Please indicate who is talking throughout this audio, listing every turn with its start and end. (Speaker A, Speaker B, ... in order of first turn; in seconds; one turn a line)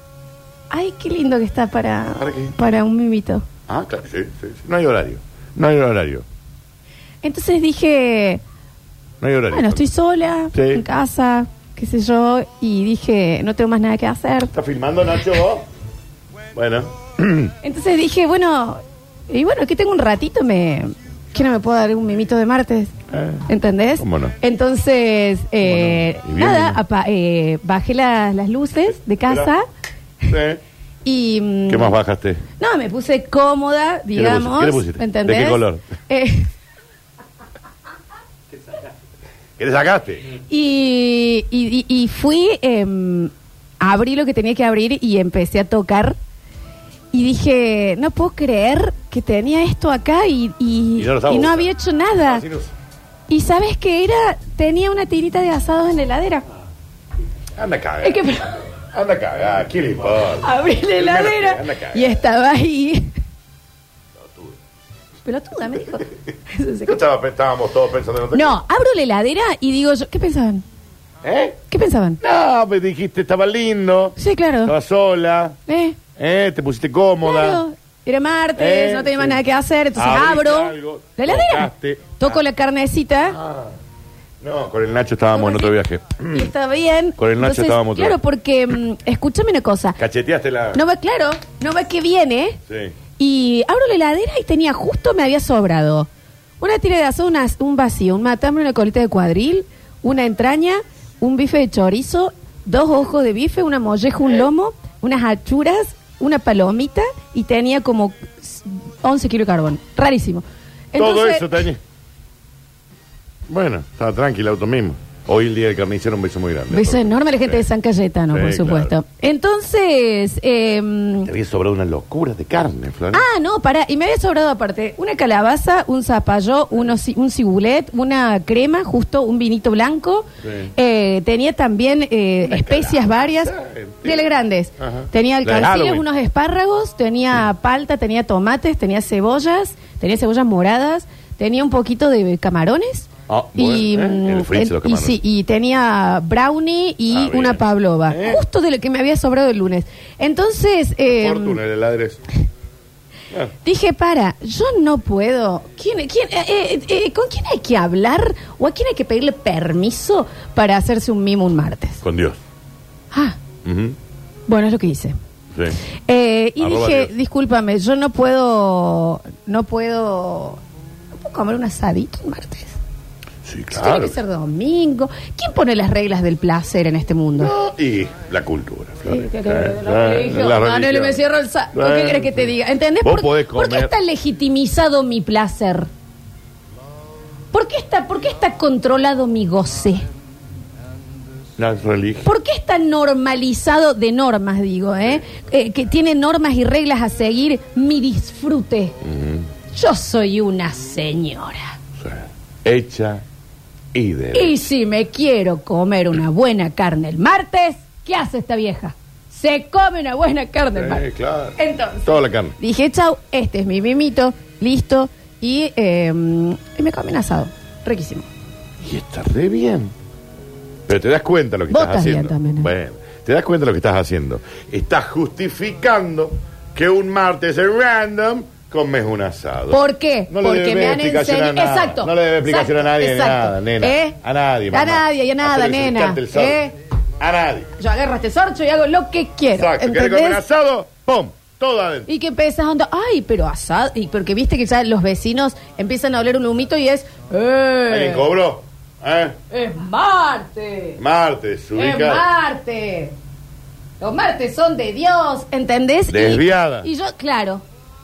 Speaker A: 0.7-3.5
Speaker B: 2.2-2.5
Speaker B: 3.7-6.2
Speaker A: 7.2-8.4
Speaker B: 9.2-9.9
Speaker A: 9.5-14.5
Speaker B: 10.5-10.8
Speaker B: 14.5-15.7
Speaker B: 16.5-17.5
Speaker A: 17.6-22.9
Speaker B: 23.1-23.4
Speaker A: 23.5-29.6
Speaker B: 24.0-24.3
Speaker B: 25.6-26.8
Speaker B: 29.2-29.5
Speaker B: 30.3-30.6
Speaker A: 31.0-31.9
Speaker B: 31.7-32.4
Speaker A: 32.6-36.5
Speaker B: 34.1-35.9
Speaker B: 39.6-40.3
Speaker A: 40.4-46.2
Speaker A: 47.1-52.4
Speaker B: 51.0-52.7
Speaker A: 53.3-56.5
Speaker B: 57.6-58.2
Speaker A: 58.0-58.6
Speaker B: 58.9-62.2
Speaker A: 60.4-63.1
Speaker B: 64.2-64.5
Speaker A: 65.2-67.0
Speaker B: 66.8-68.6
Speaker A: 68.3-70.6
Speaker B: 71.2-71.6
Speaker A: 71.7-72.2
Speaker B: 72.2-75.6
Speaker A: 74.2-74.8
Speaker A: 75.7-76.0
Speaker B: 76.2-77.6
Speaker A: 77.2-83.4
Speaker B: 78.5-79.4
Speaker B: 79.9-82.4
Speaker B: 83.3-83.7
Speaker B: 84.4-86.5
Speaker A: 85.3-85.8
Speaker A: 86.3-90.0
Speaker B: 87.2-88.2
Speaker B: 90.0-90.8
Speaker A: 90.7-92.6
Speaker B: 92.7-92.9
Speaker A: 93.2-96.1
Speaker A: 96.6-111.6
Speaker B: 111.0-111.8
Speaker B: 113.5-117.7
Speaker A: 116.7-121.3
Speaker B: 118.3-118.9
Speaker B: 121.2-123.2
Speaker A: 123.1-151.6
Speaker B: 130.4-130.7
Speaker B: 132.4-136.1
Speaker B: 143.3-145.2
Speaker B: 147.1-148.4
Speaker B: 151.1-152.2
Speaker A: 153.6-162.0
Speaker B: 162.0-162.4
Speaker A: 163.1-163.4
Speaker B: 163.6-163.9
Speaker A: 164.5-165.2
Speaker A: 166.1-170.6
Speaker B: 166.6-167.1
Speaker A: 171.1-172.8
Speaker B: 173.4-174.2
Speaker A: 173.7-177.5
Speaker B: 177.4-181.2
Speaker A: 179.1-185.9
Speaker B: 181.7-183.9
Speaker A: 187.5-190.0
Speaker B: 191.6-192.3
Speaker A: 192.2-198.9
Speaker B: 199.0-199.5
Speaker A: 199.7-201.8
Speaker B: 202.0-203.2
Speaker B: 203.9-204.6
Speaker A: 204.3-218.3
Speaker B: 210.7-212.6
Speaker B: 218.8-219.9
Speaker B: 220.9-236.6
Speaker A: 221.7-222.7
Speaker A: 229.7-234.2
Speaker A: 234.7-236.7
Speaker B: 237.2-237.7
Speaker A: 237.8-240.4
Speaker B: 239.5-242.1
Speaker A: 242.1-248.3
Speaker B: 247.9-249.3
Speaker A: 249.5-251.0
Speaker B: 251.0-252.3
Speaker A: 251.8-253.1
Speaker A: 254.0-257.6
Speaker B: 256.1-256.9